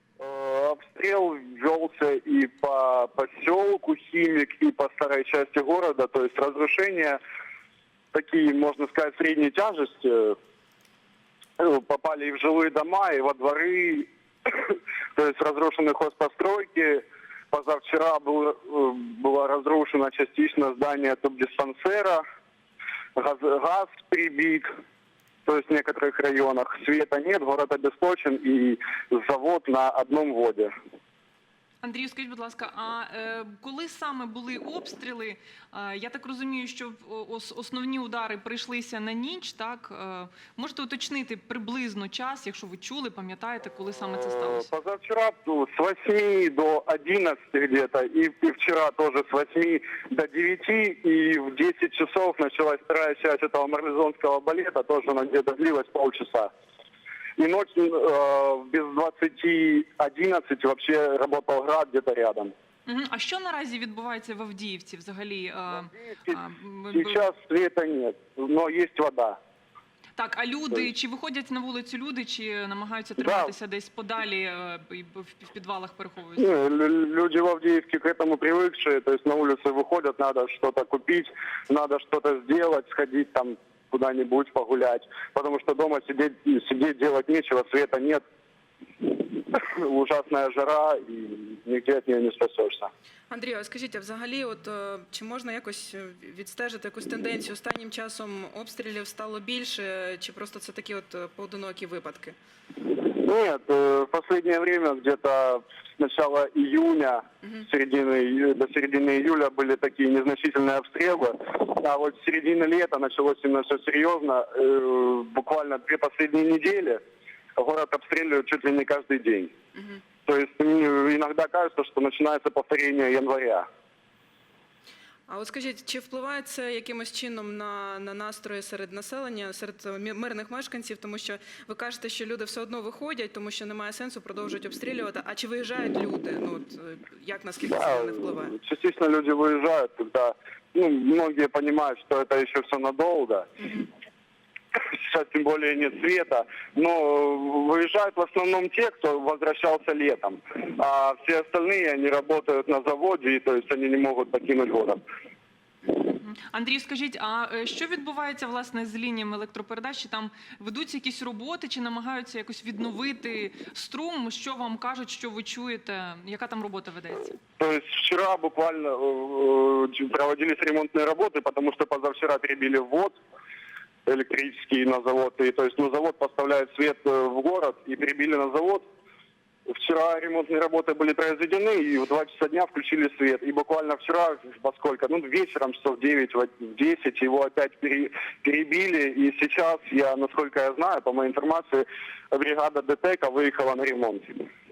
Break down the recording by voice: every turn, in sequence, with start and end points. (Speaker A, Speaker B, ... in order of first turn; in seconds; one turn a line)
Speaker A: 0.2-7.2
Speaker A: 8.1-10.4
Speaker A: 11.6-22.2
Speaker A: 23.2-24.7
Speaker A: 25.4-30.7
Speaker B: 31.8-44.7
Speaker A: 44.4-56.5
Speaker A: 57.4-62.5
Speaker B: 62.9-67.3
Speaker A: 65.8-66.4
Speaker A: 66.9-69.4
Speaker B: 70.2-76.5
Speaker A: 73.2-73.5
Speaker A: 76.4-88.2
Speaker A: 89.0-92.9
Speaker C: 93.3-102.3
Speaker A: 102.9-117.0
Speaker A: 117.6-119.5
Speaker C: 119.8-120.0
Speaker A: 120.3-123.7
Speaker C: 125.3-138.6
Speaker A: 137.6-143.5
Speaker C: 143.6-143.9
Speaker A: 144.8-155.0
Speaker B: 155.9-167.4
Speaker A: 167.6-173.2
Speaker A: 174.1-178.9
Speaker A: 179.7-194.5